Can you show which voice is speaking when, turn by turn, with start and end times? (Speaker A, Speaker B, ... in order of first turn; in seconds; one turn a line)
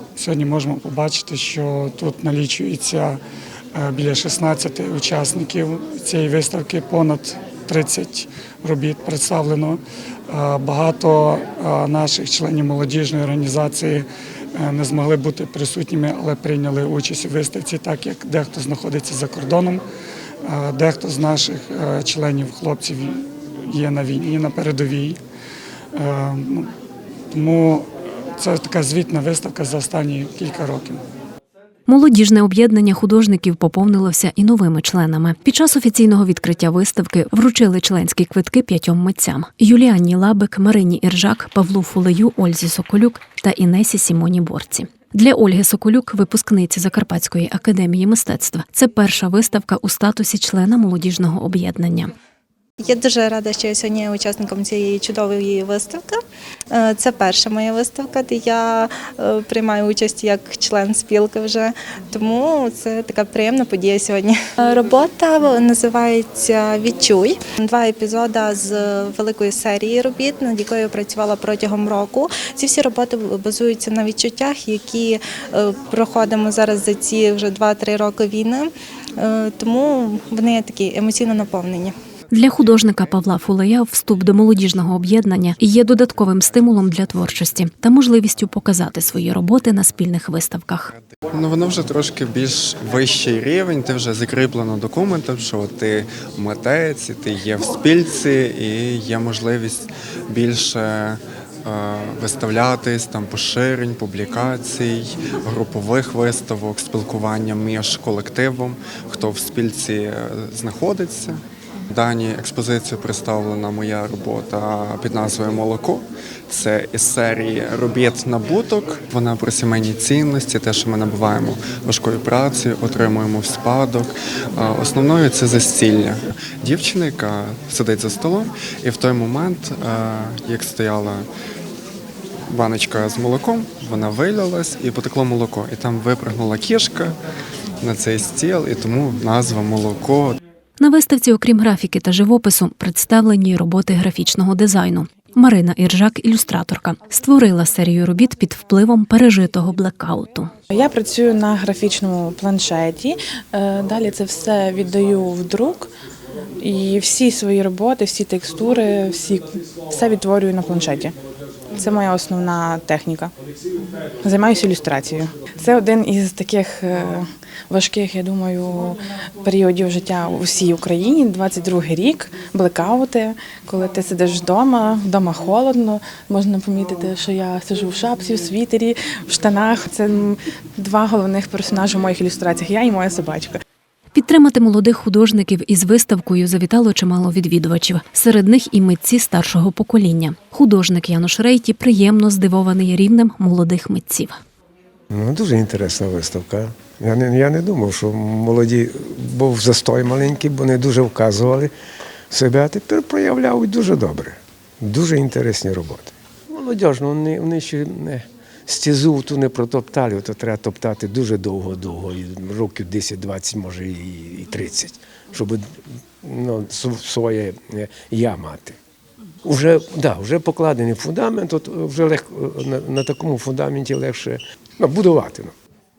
Speaker A: 0.2-3.2
Speaker A: 3.7-19.8
Speaker A: 20.4-25.2
Speaker A: 25.9-26.7
Speaker A: 27.3-31.0
Speaker B: 31.9-52.1
Speaker C: 52.8-56.2
Speaker C: 56.7-81.9
Speaker B: 82.3-90.9
Speaker D: 91.3-131.3
Speaker D: 132.5-137.2
Speaker D: 137.8-140.4
Speaker B: 140.8-150.5
Speaker E: 150.7-155.9
Speaker E: 156.6-161.1
Speaker E: 161.7-163.3
Speaker E: 164.2-183.6
Speaker B: 184.1-194.4
Speaker F: 195.1-201.7
Speaker F: 202.3-218.8
Speaker F: 219.4-225.5